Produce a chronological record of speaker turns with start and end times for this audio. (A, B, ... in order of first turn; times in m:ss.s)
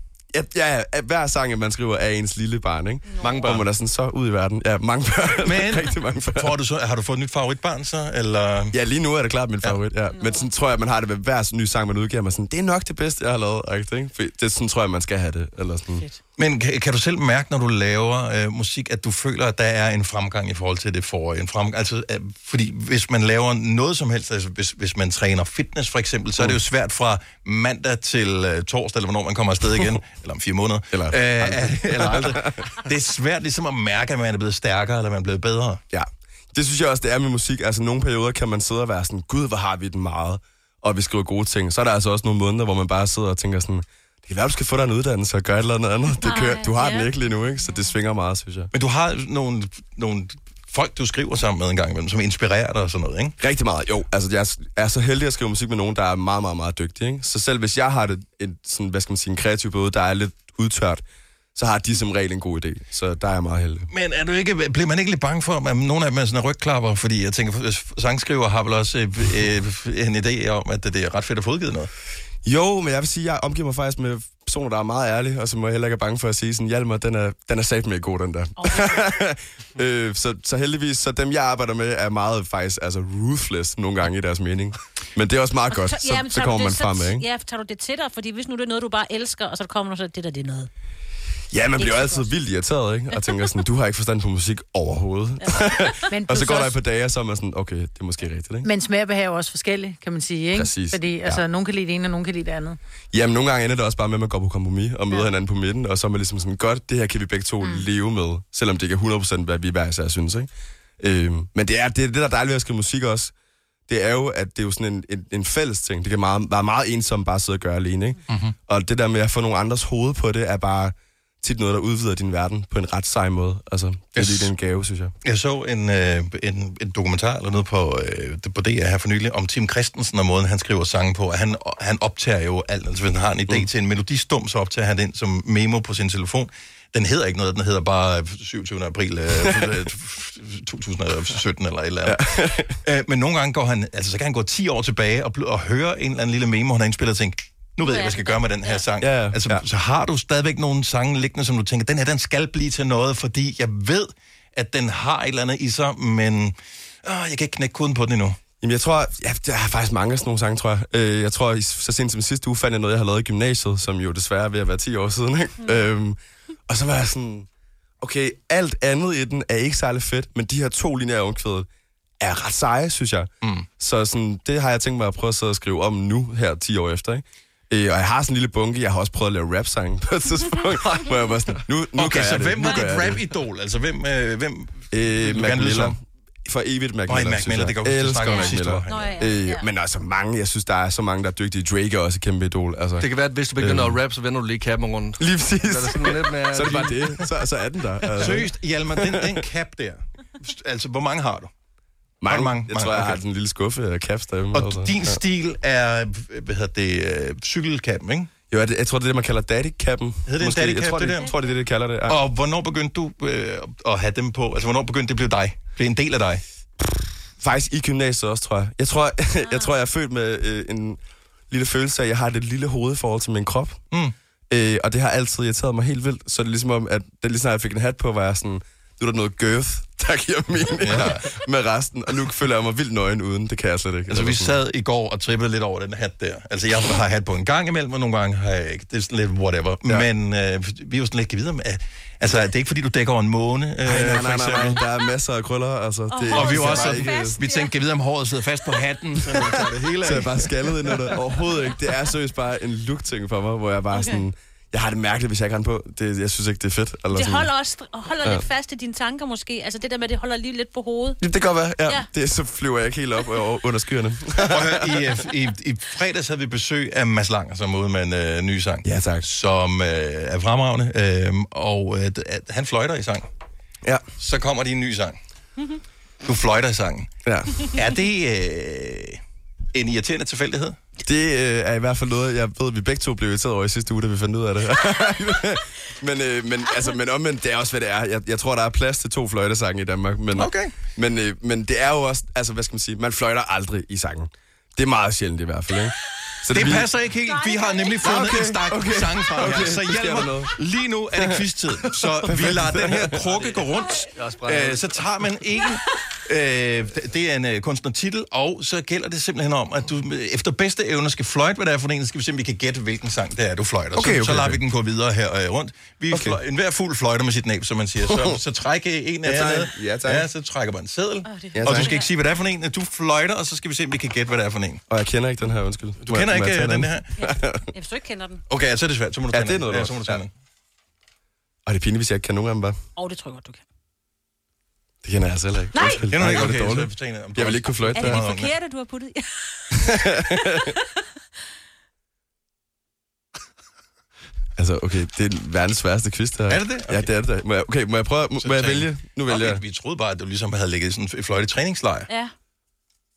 0:00.3-0:06.5 A
0:03.1-0:03.4 B
0:03.2-0:03.6 C
0:05.4-0:08.8 D
0:08.7-0:16.1 A
0:10.1-0:10.5 B
0:16.4-0:35.8 D
0:30.9-0:32.6 A
0:35.9-0:48.7 A
0:46.2-0:47.9 B
0:48.7-0:53.4 D
0:53.4-1:01.0 A
1:01.6-1:03.9 A
1:03.9-1:11.9 D
1:12.4-1:27.2 A
1:18.6-1:19.1 B
1:25.7-1:30.7 B
1:31.5-1:38.7 A
1:31.8-1:32.3 B
1:33.2-1:33.4 B
1:35.4-1:35.9 B
1:36.1-1:36.8 E
1:38.6-1:42.8 E
1:40.6-1:41.4 A
1:43.1-1:53.3 A
1:53.9-2:05.1 A
2:04.2-2:04.5 D
2:05.2-2:22.2 D
2:22.0-2:22.8 A
2:22.8-2:38.4 D
2:27.8-2:28.8 B
2:29.0-2:29.6 A
2:38.6-2:47.5 A
2:48.0-2:51.7 A
2:52.2-3:03.2 A
3:02.0-3:06.0 D
3:02.6-3:02.9 B
3:04.9-3:14.0 A
3:07.1-3:09.3 D
3:08.2-3:09.7 B
3:13.0-3:17.2 C
3:15.2-3:19.4 A
3:18.2-3:21.5 D
3:22.2-3:25.2 A
3:22.3-3:23.2 D
3:24.5-3:28.3 D
3:28.5-3:32.2 A
3:30.3-3:31.3 D
3:31.2-3:31.4 B
3:32.1-3:36.4 D
3:37.4-3:43.8 A
3:39.4-3:39.8 B
3:44.5-3:54.6 A
3:50.8-3:51.3 D
3:54.1-4:04.8 D
4:03.8-4:07.4 A
4:06.1-4:07.7 B
4:06.3-4:10.5 D
4:09.3-4:17.5 A
4:13.9-4:14.2 B
4:17.1-4:21.2 B
4:21.2-4:25.1 A
4:24.5-4:33.3 D
4:28.8-4:29.3 A
4:34.2-4:35.2 D
4:36.2-4:37.1 D
4:37.2-4:37.7 A
4:37.7-4:39.2 D
4:39.7-4:40.8 D
4:41.1-4:56.9 A
4:50.4-4:50.8 D
4:56.5-5:24.8 D
4:57.3-4:58.1 B
4:58.0-5:00.5 A
5:01.2-5:01.4 A
5:02.0-5:03.2 A
5:03.3-5:03.6 C
5:04.2-5:04.9 C
5:13.9-5:14.6 A
5:16.1-5:16.4 A
5:18.1-5:18.4 A
5:19.2-5:20.3 A
5:21.2-5:22.1 B
5:21.6-5:21.9 A
5:24.9-5:27.7 A
5:26.0-5:27.1 D
5:27.2-5:28.4 B
5:28.5-5:30.3 D
5:29.3-5:30.2 A
5:31.7-5:32.8 A
5:33.0-5:33.6 B
5:35.0-5:38.2 A
5:35.7-5:36.1 B
5:36.1-5:38.5 D
5:37.9-5:40.0 B
5:39.8-5:40.7 A
5:44.6-5:49.6 A
5:46.5-5:47.1 D
5:48.4-5:52.1 D